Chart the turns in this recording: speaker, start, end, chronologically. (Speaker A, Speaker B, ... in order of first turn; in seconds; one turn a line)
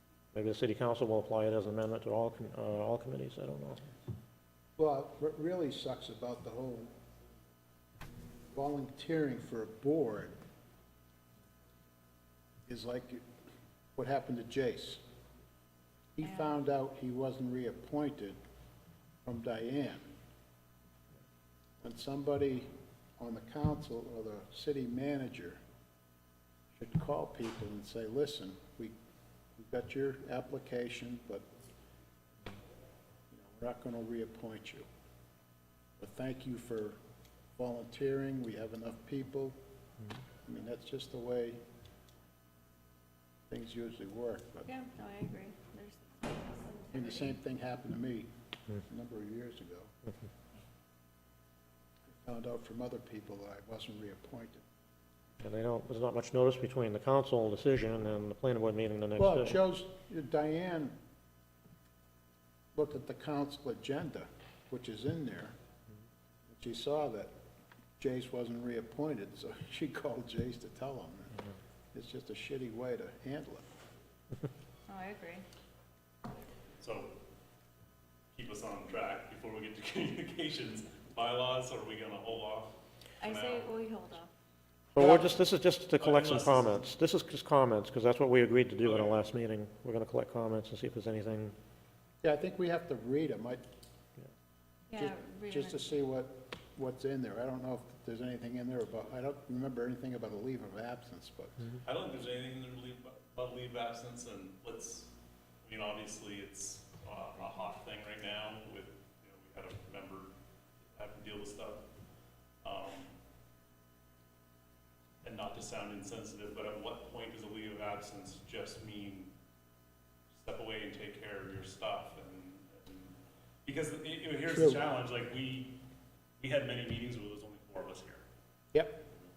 Speaker A: 0.3-3.8
Speaker B: 4.8-6.9
Speaker B: 8.5-10.3
Speaker B: 12.7-13.2
Speaker B: 14.0-15.0
Speaker B: 16.2-18.4
Speaker B: 19.2-20.0
Speaker B: 21.8-25.6
Speaker B: 26.8-28.9
Speaker B: 29.6-31.4
Speaker B: 33.3-34.9
Speaker B: 36.0-37.0
Speaker B: 37.6-39.5
Speaker B: 40.5-41.6
Speaker B: 43.5-44.7
Speaker C: 44.7-47.3
Speaker B: 46.9-48.3
Speaker B: 48.8-49.9
Speaker B: 52.1-54.6
Speaker A: 55.4-59.6
Speaker B: 59.2-61.0
Speaker B: 62.8-65.5
Speaker B: 66.5-67.3
Speaker B: 68.0-71.4
Speaker B: 71.9-73.6
Speaker C: 74.9-75.4
Speaker D: 76.8-77.1
Speaker D: 78.3-83.7
Speaker C: 83.2-84.3
Speaker A: 85.0-91.6
Speaker B: 85.0-85.3
Speaker D: 86.0-86.8
Speaker D: 88.8-89.3
Speaker B: 92.2-93.6
Speaker C: 94.9-95.8
Speaker B: 95.0-101.7
Speaker D: 101.8-105.1
Speaker D: 105.6-110.3
Speaker D: 110.9-111.8
Speaker D: 112.6-113.1
Speaker D: 115.2-119.3
Speaker D: 120.3-123.1
Speaker D: 123.7-125.8
Speaker B: 124.5-124.8
Speaker D: 126.4-128.2
Speaker B: 128.7-129.0